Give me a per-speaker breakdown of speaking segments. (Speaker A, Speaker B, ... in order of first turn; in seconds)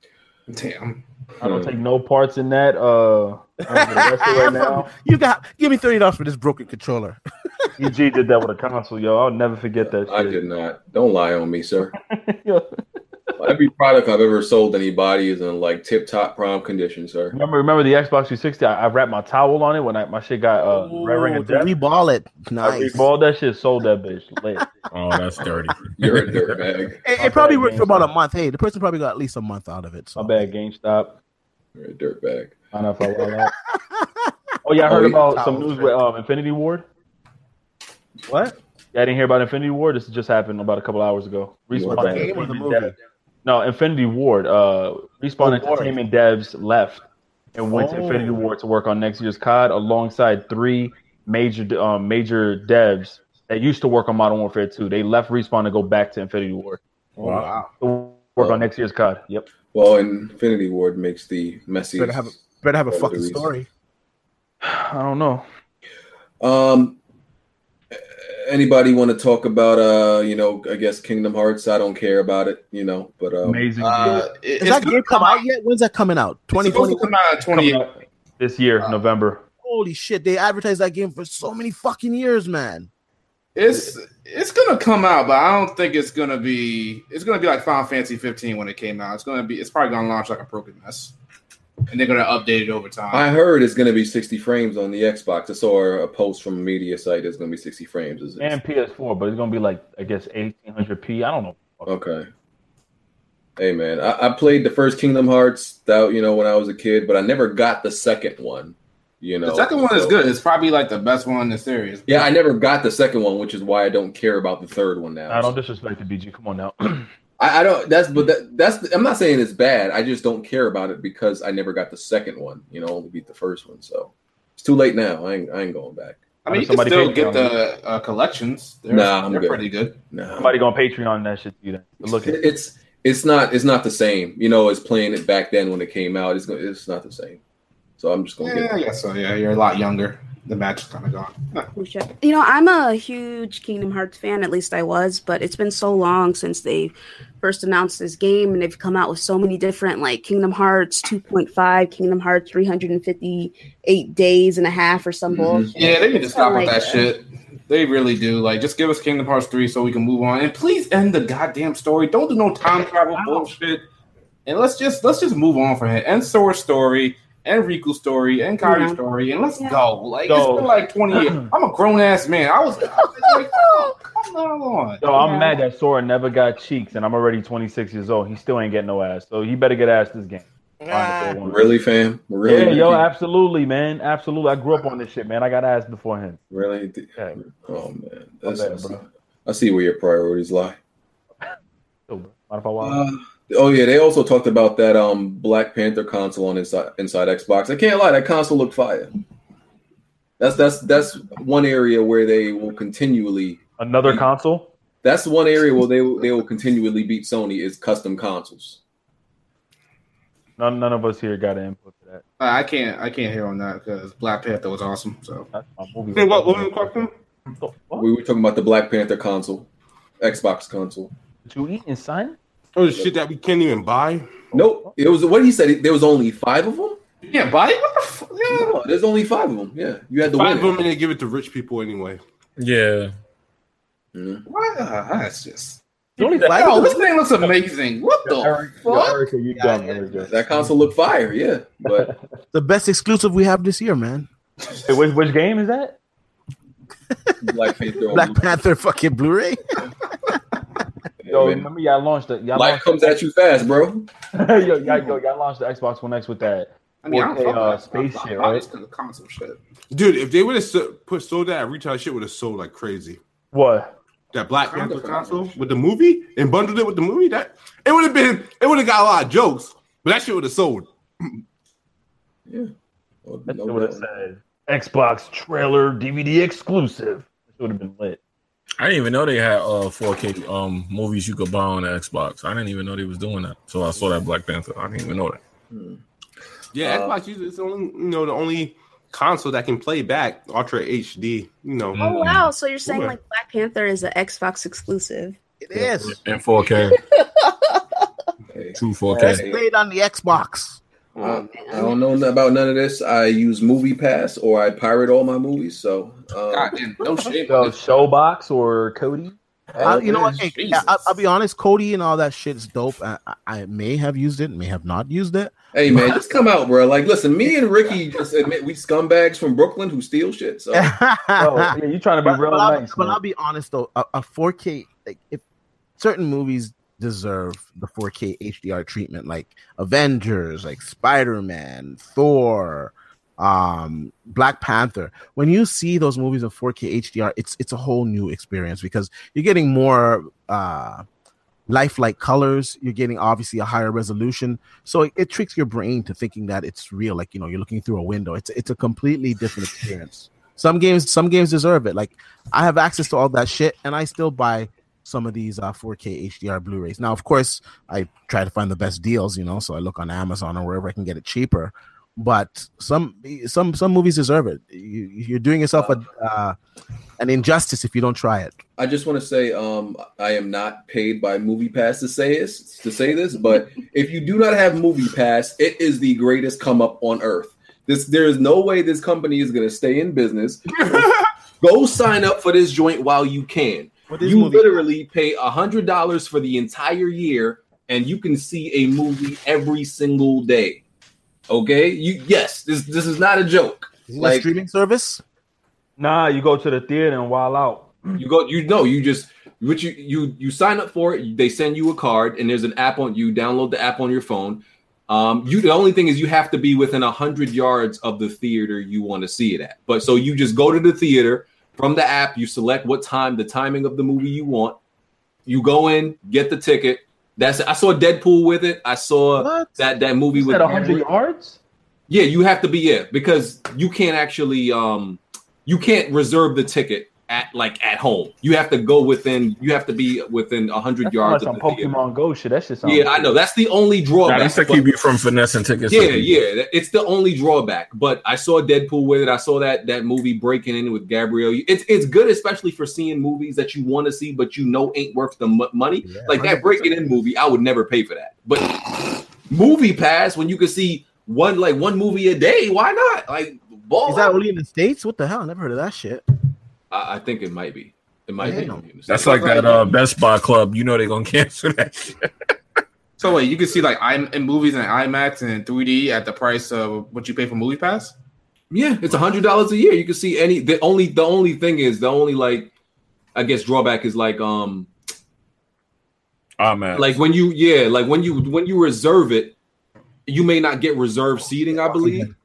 Speaker A: 0.5-1.0, 73.8-75.4, 76.6-77.8, 83.5-91.1, 91.9-93.3, 109.4-112.3, 126.4-129.9, 138.4-141.7, 155.8-163.8, 164.4-175.0, 212.4-215.5, 227.3-228.8, 234.5-239.2, 257.0-259.6, 264.9-265.2, 306.5-307.8, 309.8-310.9, 459.1-459.8, 463.2-468.1
Speaker B: 1.4-4.9, 7.8-10.4, 12.1-12.7, 17.3-21.7, 22.6-24.7, 27.1-28.1, 30.1-31.1, 32.7-33.5, 34.6-36.8, 38.9-47.0, 47.5-56.8, 57.8-59.5, 64.6-65.4, 73.4-74.2, 77.5-79.4, 98.4-101.9, 115.3-117.1, 126.5-127.5, 130.3-132.4, 170.3-171.4, 175.0-181.7, 182.4-186.4, 188.4-189.0, 192.1-193.0, 203.8-204.7, 210.6-212.2, 215.5-218.1, 221.5-222.4, 224.6-224.9, 236.2-237.0, 238.2-240.4, 241.8-242.2, 244.8-245.9, 251.3-253.2, 254.3-258.6, 263.5-263.9, 273.5-278.2, 307.5-309.4, 321.4-323.2, 396.0-398.2, 420.3-421.6, 431.1-433.3
Speaker C: 1.4-1.7, 9.8-11.9, 13.4-17.3, 26.0-27.0, 31.8-32.5, 34.9-35.1, 41.7-42.3, 58.4-58.7, 59.7-62.3, 62.9-63.5, 66.4-67.0, 67.9-74.1, 93.1-98.6, 101.8-102.3, 103.6-110.2, 112.1-115.5, 117.4-126.2, 128.9-130.6, 132.0-137.4, 138.0-138.7, 155.3-155.7, 181.5-183.0, 186.5-190.8, 192.8-199.1, 200.4-204.2, 205.0-208.8, 218.0-219.7, 220.2-221.1, 224.5-227.0, 228.5-230.8, 234.1-234.4, 240.3-242.1, 247.4-248.5, 251.2-251.7, 252.5-254.1, 264.8-265.4, 273.2-274.1, 285.7-286.0, 286.8-287.1, 298.5-299.6, 301.2-306.8, 309.8-310.8, 315.7-320.9, 368.8-390.8, 391.5-394.5, 398.2-414.8, 415.5-421.1, 422.1-431.9, 432.8-434.9, 435.9-454.4, 456.9-459.8, 468.7-472.7, 473.3-474.9, 476.9-479.5, 480.3-482.3
Speaker D: 3.7-7.7, 20.7-23.1, 27.0-30.5, 33.4-34.1, 34.8-36.0, 38.3-38.5, 41.9-42.9, 45.4-45.9, 47.7-48.4, 57.2-57.7, 62.0-63.7, 74.6-77.1, 79.6-82.9, 180.8-181.4, 236.4-237.0, 239.5-240.4, 242.5-244.3, 248.1-249.8, 295.6-296.2, 299.2-300.8, 309.8-315.5, 320.7-325.4, 326.0-341.0, 341.7-366.6, 367.2-368.6, 384.1-384.8, 394.1-395.2, 419.4-419.7, 446.0-446.9, 454.0-456.2, 458.4-458.8, 481.8-482.3
Speaker E: 24.9-26.5, 232.6-233.1, 278.8-285.4, 292.0-292.5, 296.0-297.0, 298.8-299.4, 434.2-436.3, 459.1-462.2, 476.6-477.2
Speaker F: 141.7-157.1, 168.6-169.0, 173.2-173.9, 175.2-175.6, 292.0-295.4, 297.1-298.0, 301.5-301.9
Speaker G: 216.1-217.1, 222.7-224.4, 230.2-232.2, 259.9-263.2, 264.3-271.4, 286.7-292.1, 292.8-293.1